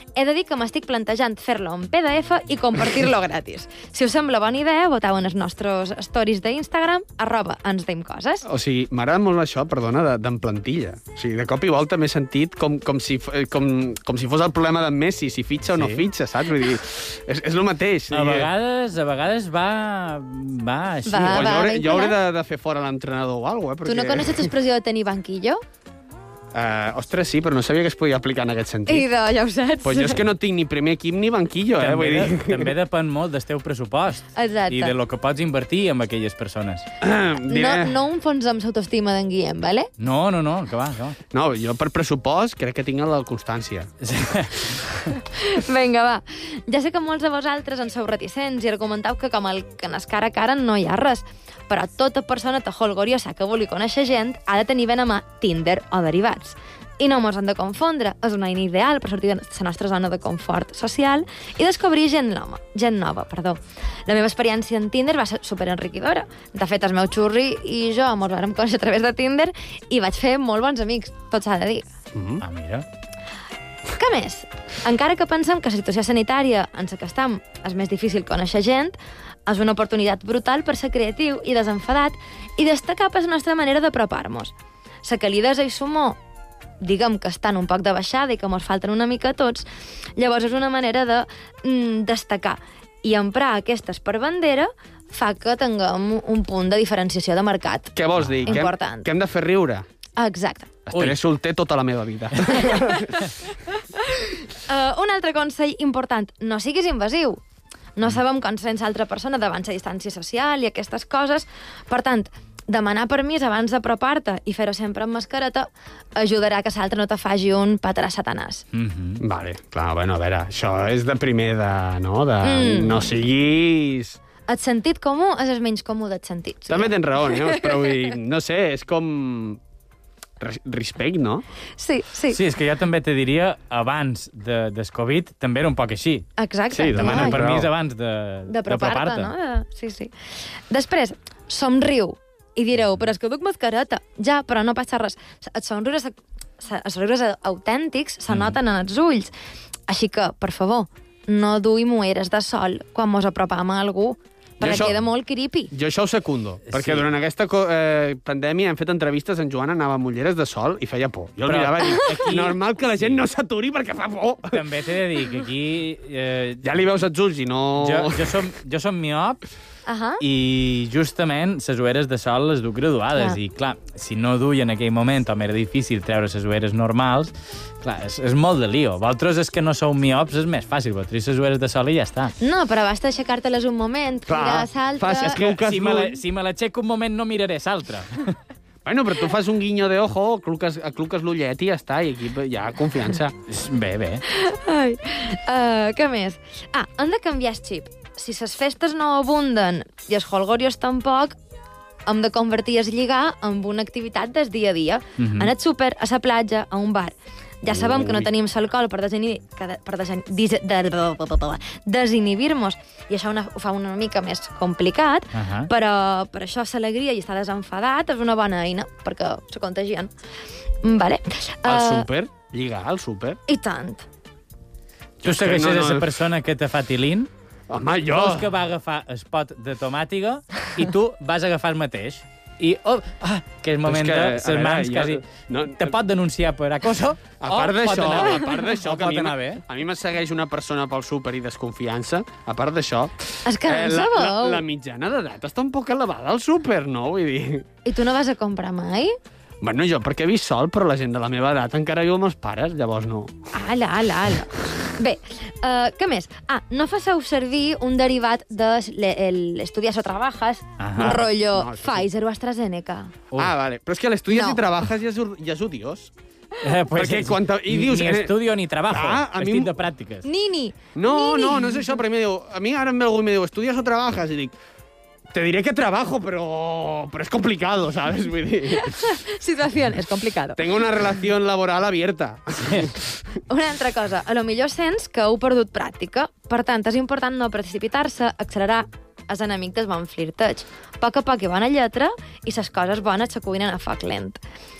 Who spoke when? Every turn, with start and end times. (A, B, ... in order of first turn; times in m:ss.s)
0:00.2-0:08.4 A
0:08.4-0:18.5 B
0:15.7-0:16.0 C
0:18.1-0:21.6 C
0:21.1-0:22.2 A
0:21.3-0:24.5 B
0:23.8-0:25.6 A
0:26.5-0:29.1 B
0:28.9-0:30.2 A
0:29.8-0:32.7 B
0:31.8-0:36.8 C
0:34.4-0:35.0 A
0:37.0-0:37.9 B
0:37.5-0:39.9 A
0:40.0-0:41.2 C
0:41.3-0:43.9 B
0:44.0-0:45.1 C
0:45.2-1:11.8 A
1:12.1-1:12.4 B
1:12.4-1:12.8 C
1:13.9-1:24.5 A
1:25.0-1:26.2 A
1:26.8-1:29.6 A
1:30.2-1:39.1 A
1:38.0-1:39.8 B
1:38.2-1:38.6 C
1:40.2-1:40.7 A
1:40.9-1:43.3 B
1:40.9-1:41.2 C
1:42.6-1:43.1 A
1:44.0-1:47.4 A
1:48.0-1:58.6 A
1:58.7-1:59.2 C
1:59.2-2:04.2 B
2:02.4-2:03.1 A
2:04.5-2:07.9 A
2:06.7-2:09.6 B
2:10.4-2:11.4 B
2:11.8-2:12.4 A
2:12.3-2:19.3 C
2:16.4-2:17.4 A
2:16.7-2:17.7 B
2:18.5-2:20.1 A
2:20.7-2:29.3 A
2:28.3-2:28.5 C
2:29.9-2:35.7 A
2:34.6-2:35.0 B
2:35.7-2:44.6 B
2:36.7-2:37.0 C
2:41.4-2:43.2 C
2:41.8-2:42.2 A
2:44.5-2:46.8 C
2:46.6-2:48.3 B
2:47.8-2:49.4 C
2:49.9-2:50.2 A
2:50.2-3:02.3 C
3:02.4-3:05.4 A
3:04.3-3:06.2 B
3:05.2-3:08.4 C
3:08.8-3:13.3 B
3:13.5-3:14.2 C
3:14.3-3:21.4 A
3:22.1-3:40.1 A
3:25.2-3:25.5 C
3:27.7-3:28.3 B
3:35.3-3:35.7 C
3:40.8-3:42.1 A
3:41.6-3:43.4 B
3:43.5-3:44.0 A
3:45.2-3:46.1 B
3:45.2-3:47.3 C
3:47.7-3:48.5 B
3:48.1-3:59.6 C
3:53.8-3:56.0 B
3:57.4-4:07.7 B
4:03.4-4:04.6 A
4:07.8-4:09.2 A
4:09.6-4:13.3 B
4:13.5-4:23.1 A
4:20.8-4:21.2 C
4:21.0-4:22.0 B
4:23.3-4:26.1 B
4:24.3-4:24.6 A
4:26.6-4:30.2 C
4:26.9-4:28.4 B
4:28.9-4:29.7 B
4:30.2-4:31.9 A
4:31.0-4:34.5 B
4:35.3-4:39.0 B
4:38.8-4:40.6 A
4:40.6-4:43.1 B
4:42.6-4:42.9 C
4:43.5-4:54.4 A